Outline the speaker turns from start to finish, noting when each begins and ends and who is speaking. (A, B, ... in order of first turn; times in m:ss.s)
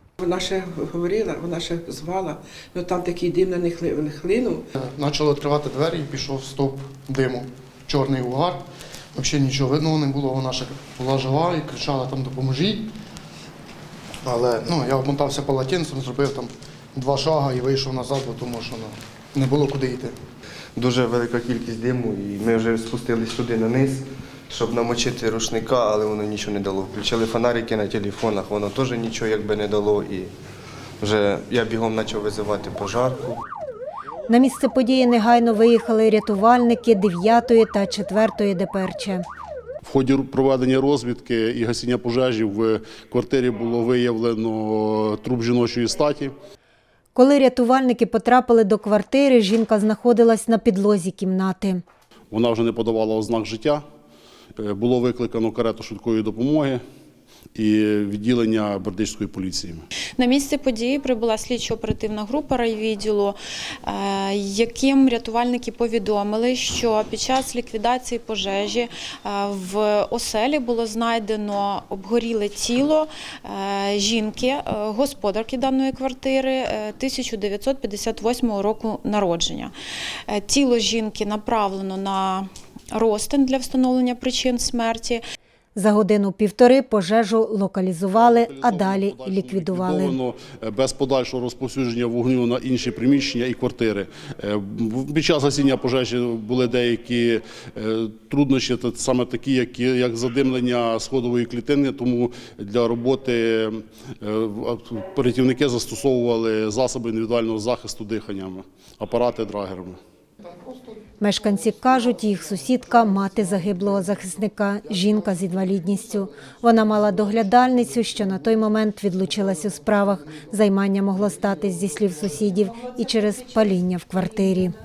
0:00.2-0:04.6 A
0:04.8-0:08.6 B
0:09.1-0:12.9 B
0:14.2-0:20.2 B
0:20.8-0:30.3 C
0:31.0-0:33.4 C
0:34.3-0:39.2 D
0:39.8-0:46.3 E
0:47.2-0:51.8 D
0:52.3-0:53.8 E
0:54.6-0:56.8 E
0:57.6-0:59.8 E
1:00.2-1:19.7 F
1:20.3-1:25.2 F
1:25.8-1:30.2 D
1:28.2-1:50.0 E
1:51.2-2:04.8 D